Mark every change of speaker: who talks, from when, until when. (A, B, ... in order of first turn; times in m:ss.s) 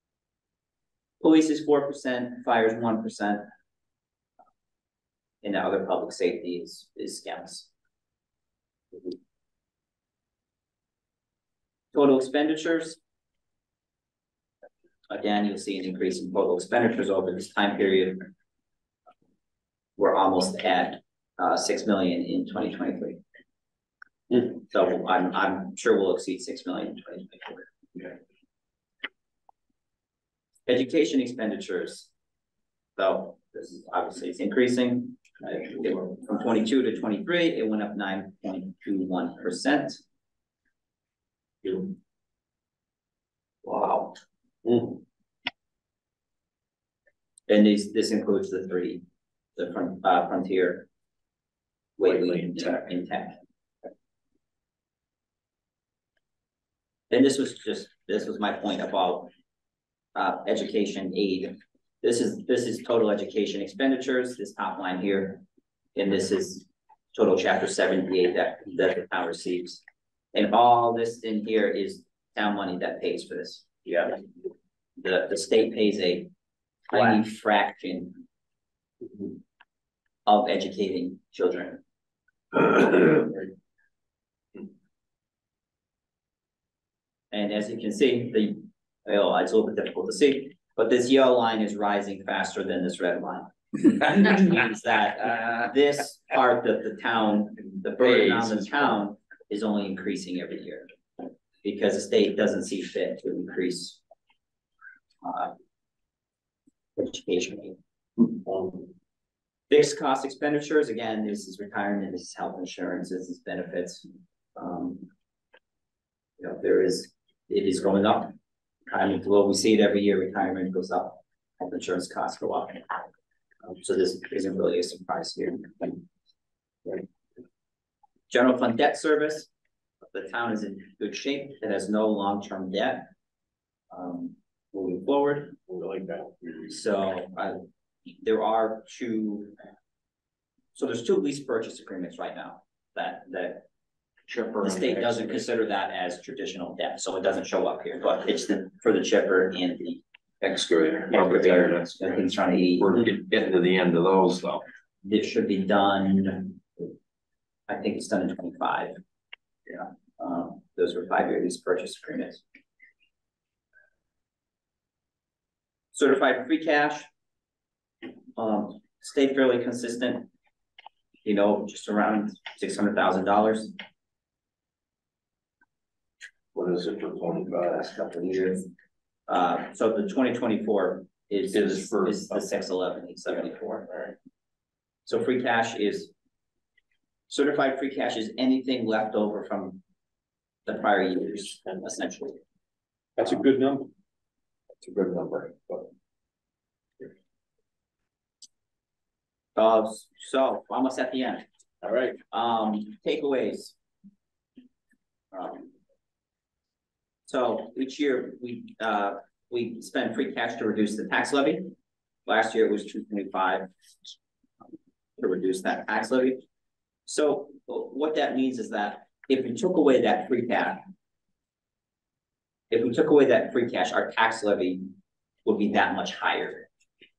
0:01.2-0:03.5 A
0:05.4-0:07.7 A
0:11.9-0:13.0 A
0:15.1-0:18.3 A
0:20.0-0:23.2 A
0:24.4-0:27.6 A
0:30.6-0:32.1 A
0:33.0-0:40.0 A
0:41.6-0:41.9 A
0:43.6-0:44.2 B
0:44.6-0:45.0 C
0:47.5-0:49.0 A
0:49.6-0:50.8 A
0:52.0-0:53.4 A
0:52.0-0:52.9 B
0:57.1-0:59.3 A
1:00.1-1:05.4 A
1:05.9-1:09.8 A
1:10.3-1:14.1 A
1:15.0-1:16.3 A
1:16.9-1:18.2 A
1:20.2-1:21.8 A
1:27.3-1:40.9 A
1:38.0-1:39.0 B
1:41.6-1:44.0 A
1:45.2-1:45.5 A
1:47.0-1:47.8 A
1:48.4-1:48.9 C
1:49.7-1:55.1 A
1:56.4-1:58.3 A
1:58.9-2:03.0 A
2:03.6-2:06.0 A
2:08.3-2:09.5 A
2:10.1-2:13.1 A
2:13.9-2:15.6 A
2:15.7-2:16.7 C
2:16.7-2:17.6 A
2:18.2-2:19.5 A
2:20.7-2:23.6 A
2:24.3-2:25.4 B
2:24.6-2:30.0 A
2:30.4-2:32.1 B
2:31.1-2:33.0 A
2:32.8-2:34.6 B
2:35.0-2:36.8 A
2:37.7-2:39.0 A
2:39.7-2:42.4 A
2:45.9-2:47.1 A
2:48.4-2:50.3 A
2:51.2-2:53.7 A
2:56.5-2:58.7 B
2:59.3-3:03.9 A
3:01.5-3:02.4 B
3:05.0-3:06.1 A
3:07.3-3:09.8 A
3:10.6-3:12.4 A
3:13.2-3:13.9 C
3:14.8-3:15.9 B
3:19.5-3:21.4 A
3:21.8-3:22.2 C
3:22.3-3:23.7 A
3:25.3-3:25.7 A
3:27.3-3:31.7 A
3:32.2-3:33.7 A
3:35.2-3:36.4 A
3:37.0-3:40.8 A
3:42.7-3:44.9 A
3:45.4-3:46.6 A